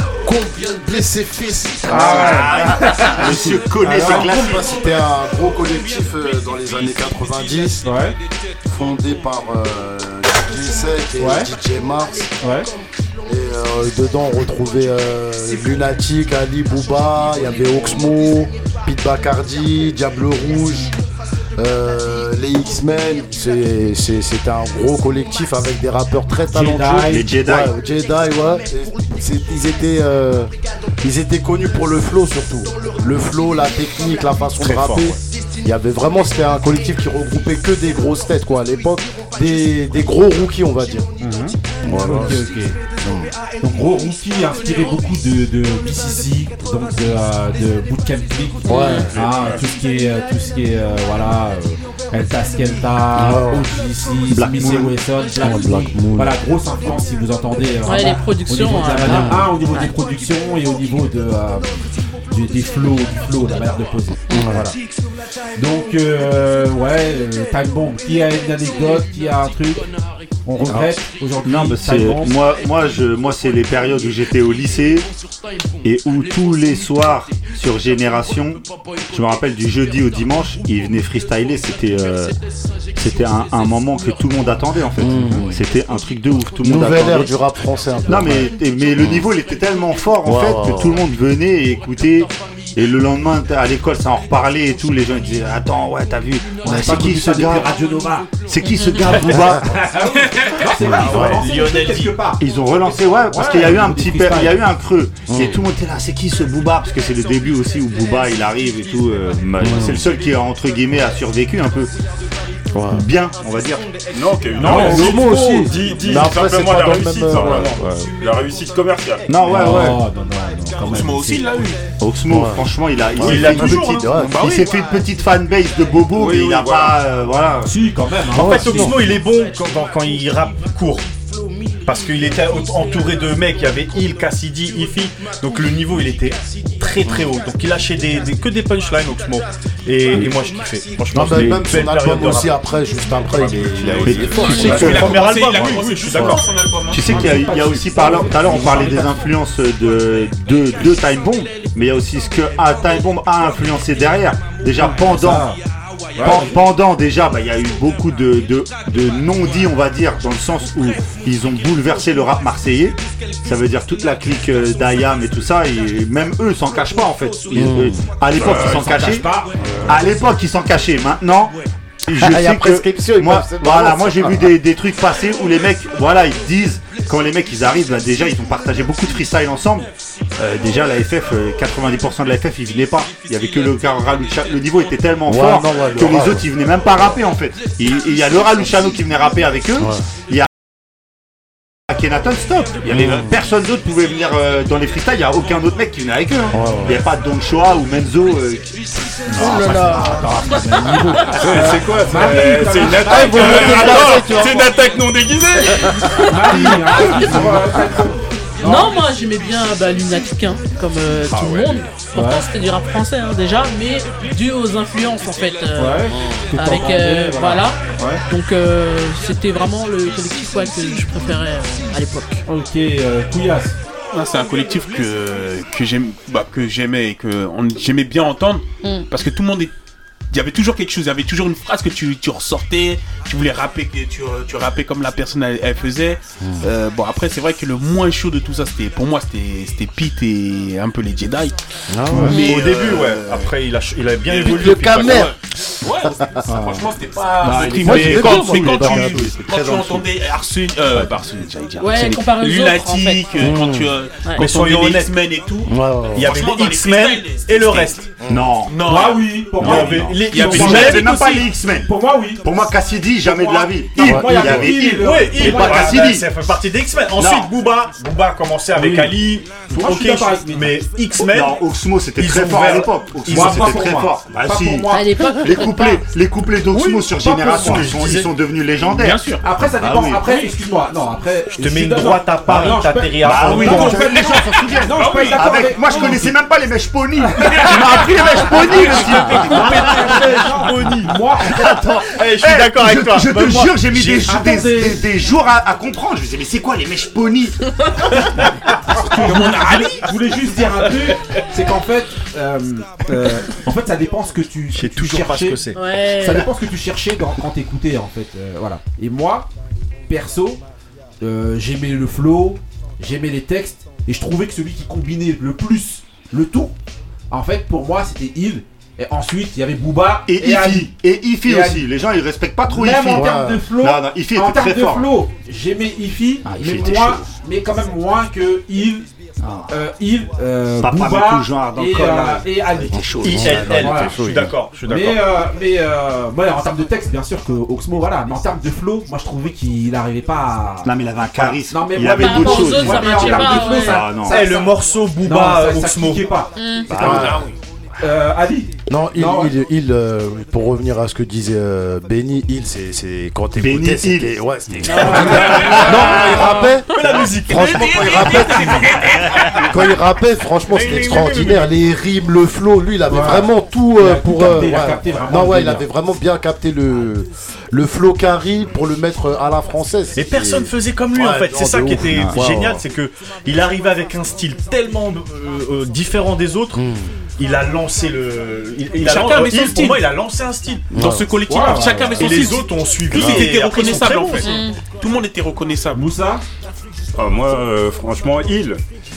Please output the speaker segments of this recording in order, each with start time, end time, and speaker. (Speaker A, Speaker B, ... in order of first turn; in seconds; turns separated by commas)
Speaker A: 0.2-7.8, Speaker B: 1.9-3.2, Speaker C: 1.9-4.6, Speaker B: 3.8-4.3, Speaker D: 3.9-4.7, Speaker B: 7.8-8.1, Speaker A: 8.7-12.3, Speaker B: 11.2-11.5, Speaker B: 12.4-12.7, Speaker A: 13.3-20.9, Speaker A: 21.6-30.5, Speaker B: 26.5-27.4, Speaker C: 27.1-27.7, Speaker A: 31.0-41.1, Speaker D: 34.7-35.0, Speaker B: 41.2-42.8, Speaker A: 41.8-42.4, Speaker A: 43.0-43.3, Speaker B: 43.6-64.8, Speaker A: 48.6-49.2, Speaker E: 48.7-49.1, Speaker A: 53.1-53.7, Speaker C: 54.3-55.0, Speaker A: 55.4-56.3, Speaker E: 57.8-59.9, Speaker A: 59.0-59.5, Speaker A: 64.3-64.7, Speaker B: 65.5-69.9, Speaker B: 70.5-72.4, Speaker C: 70.7-75.1, Speaker C: 75.8-82.4, Speaker C: 82.9-87.4, Speaker A: 85.0-85.6, Speaker A: 86.6-89.3, Speaker C: 88.0-97.8, Speaker A: 90.2-91.1, Speaker B: 96.6-98.3, Speaker C: 98.5-99.8, Speaker E: 98.7-99.1, Speaker A: 99.2-99.6, Speaker B: 99.5-102.4, Speaker D: 100.2-102.1, Speaker A: 100.8-101.4, Speaker F: 101.1-102.0, Speaker C: 102.4-111.9, Speaker B: 103.3-104.6, Speaker A: 105.3-105.6, Speaker A: 109.6-110.1, Speaker A: 112.7-113.1, Speaker C: 112.9-113.9, Speaker G: 114.1-119.3, Speaker B: 114.5-115.1, Speaker A: 114.6-118.1, Speaker C: 114.7-115.1, Speaker C: 119.3-120.0, Speaker B: 119.5-121.5, Speaker A: 119.6-120.0, Speaker D: 120.8-121.8, Speaker C: 122.0-127.7, Speaker A: 122.3-124.7, Speaker F: 123.2-124.1, Speaker D: 124.2-124.7, Speaker G: 126.2-127.0, Speaker B: 127.6-129.2, Speaker A: 128.3-129.2, Speaker F: 128.3-131.1, Speaker F: 131.8-142.6, Speaker A: 137.0-137.3, Speaker A: 141.1-145.1, Speaker C: 141.3-141.7, Speaker G: 143.4-144.6, Speaker D: 143.5-147.5, Speaker C: 144.0-145.2, Speaker F: 144.4-146.5, Speaker E: 144.5-144.9, Speaker C: 146.9-155.5, Speaker B: 147.0-149.2, Speaker B: 154.8-155.6, Speaker B: 156.2-156.6, Speaker C: 156.2-169.3, Speaker A: 167.5-168.0, Speaker B: 168.4-169.8, Speaker G: 168.4-168.9, Speaker D: 168.5-169.2, Speaker C: 169.8-171.5, Speaker A: 172.1-174.5, Speaker C: 172.1-190.5, Speaker A: 185.2-186.5, Speaker A: 189.8-190.1, Speaker C: 191.9-198.8, Speaker A: 192.8-193.4, Speaker A: 196.5-197.0, Speaker B: 196.6-196.9, Speaker B: 199.3-204.1, Speaker C: 199.3-200.0, Speaker A: 199.4-199.8, Speaker E: 200.4-201.5, Speaker G: 201.4-207.4, Speaker A: 203.2-204.7, Speaker B: 206.3-209.0, Speaker E: 208.6-222.4, Speaker G: 211.3-211.9, Speaker B: 212.1-212.4, Speaker B: 215.7-218.2, Speaker A: 216.1-216.5, Speaker B: 222.4-223.8, Speaker D: 224.1-229.7, Speaker D: 230.3-243.5, Speaker A: 236.4-236.7, Speaker A: 241.9-242.6, Speaker B: 242.1-242.4, Speaker F: 242.3-245.3, Speaker D: 244.2-258.1, Speaker A: 244.4-245.3, Speaker B: 246.4-246.8, Speaker A: 247.4-249.4, Speaker C: 247.4-250.1, Speaker E: 251.8-253.6, Speaker A: 253.4-253.9, Speaker F: 254.3-255.2, Speaker A: 255.7-256.3, Speaker F: 256.1-258.1, Speaker A: 258.2-258.5, Speaker C: 258.2-258.8, Speaker D: 258.7-261.5, Speaker B: 258.8-262.4, Speaker F: 259.6-261.2, Speaker C: 259.6-261.9, Speaker C: 262.4-266.3, Speaker B: 263.2-266.1, Speaker A: 264.0-264.7, Speaker F: 264.7-271.6, Speaker C: 267.2-267.5, Speaker B: 268.8-270.7, Speaker C: 271.2-279.2, Speaker F: 272.1-273.9, Speaker B: 272.4-275.2, Speaker E: 274.9-276.0, Speaker F: 277.1-278.3, Speaker D: 277.4-277.8, Speaker D: 278.8-279.4, Speaker B: 279.4-286.3, Speaker C: 279.8-280.2, Speaker F: 281.6-284.1, Speaker C: 283.2-290.3, Speaker D: 283.3-286.3, Speaker B: 287.4-287.8, Speaker D: 287.6-289.9, Speaker B: 288.4-291.8, Speaker F: 288.7-291.2, Speaker C: 291.4-297.6, Speaker F: 292.1-294.3, Speaker B: 294.2-295.1, Speaker B: 298.9-309.5, Speaker D: 299.0-301.1, Speaker F: 304.7-305.8, Speaker E: 305.7-306.5, Speaker B: 310.1-310.6, Speaker B: 311.2-316.7, Speaker B: 317.3-321.9, Speaker C: 320.2-325.1, Speaker B: 322.7-329.1, Speaker A: 323.1-323.6, Speaker C: 326.4-327.2, Speaker C: 329.4-329.7, Speaker B: 329.7-347.3, Speaker C: 330.8-333.6, Speaker A: 332.9-334.5, Speaker F: 333.2-335.2, Speaker C: 340.8-344.5, Speaker E: 342.0-344.2, Speaker F: 344.2-346.3, Speaker E: 346.5-347.0, Speaker C: 346.9-347.4, Speaker A: 346.9-347.5, Speaker D: 347.1-347.5, Speaker B: 348.0-349.5, Speaker A: 348.9-359.0, Speaker C: 353.6-356.2, Speaker D: 354.9-356.5, Speaker B: 355.0-355.5, Speaker F: 355.6-358.7, Speaker D: 357.1-360.0, Speaker A: 359.6-372.8, Speaker F: 360.7-361.8, Speaker B: 363.1-365.9, Speaker F: 370.1-376.8, Speaker A: 376.7-377.1, Speaker F: 377.4-380.9, Speaker D: 379.0-380.1, Speaker A: 380.9-381.4, Speaker D: 380.9-386.0, Speaker B: 381.5-382.3, Speaker F: 382.2-384.6, Speaker E: 384.3-384.8, Speaker B: 385.9-386.4, Speaker G: 387.1-388.8